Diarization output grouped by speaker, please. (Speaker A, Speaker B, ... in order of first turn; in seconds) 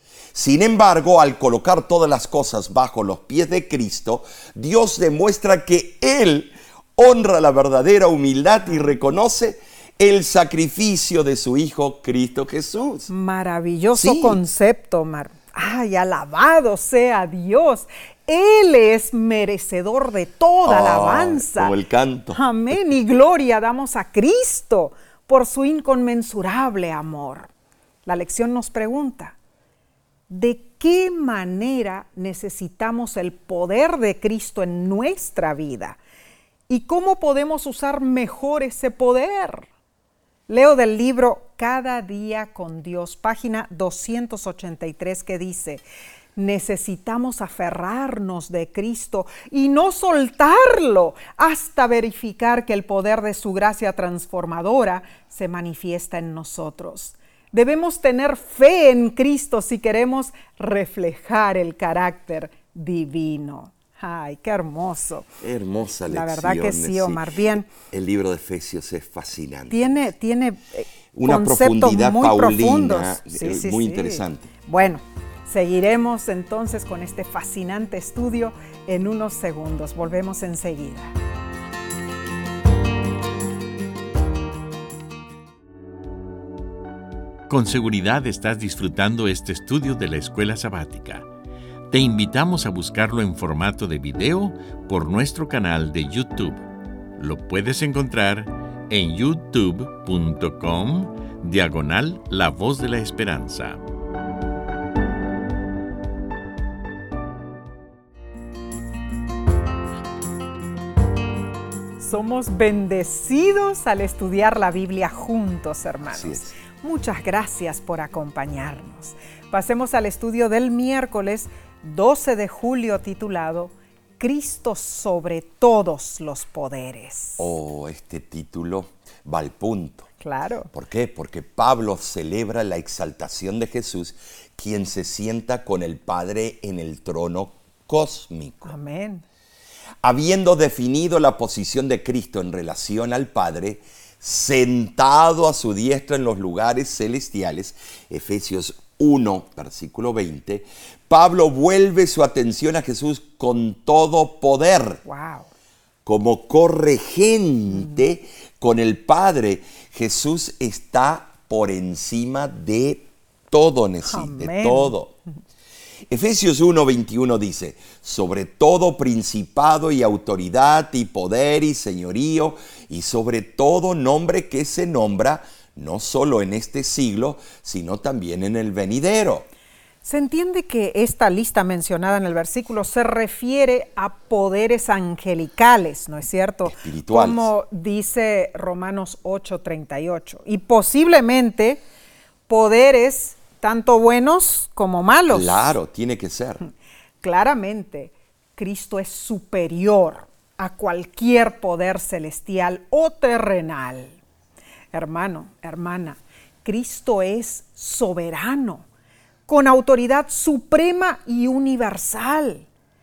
Speaker A: 0.3-13.1, 13.9-14.4, 20.7-22.4, 65.4-70.0, 71.1-74.5, 116.1-116.5, 127.4-130.1, 130.7-138.7, 140.0-155.0, 156.1-165.2, 166.1-179.5, 186.7-187.5, 195.3-196.6
Speaker B: 8.7-9.0, 13.1-21.8, 22.3-27.5, 28.1-29.4, 30.3-36.0, 36.7-39.7, 40.5-45.8, 46.4-65.3, 66.1-67.7, 69.7-81.1, 112.0-127.5, 130.2-130.7, 138.7-139.2, 155.1-155.5, 164.1-164.9, 180.0-191.8, 192.5-195.7, 197.2-204.2, 204.9-208.8, 209.5-212.7
Speaker C: 87.5-91.3, 91.9-96.7, 97.2-103.8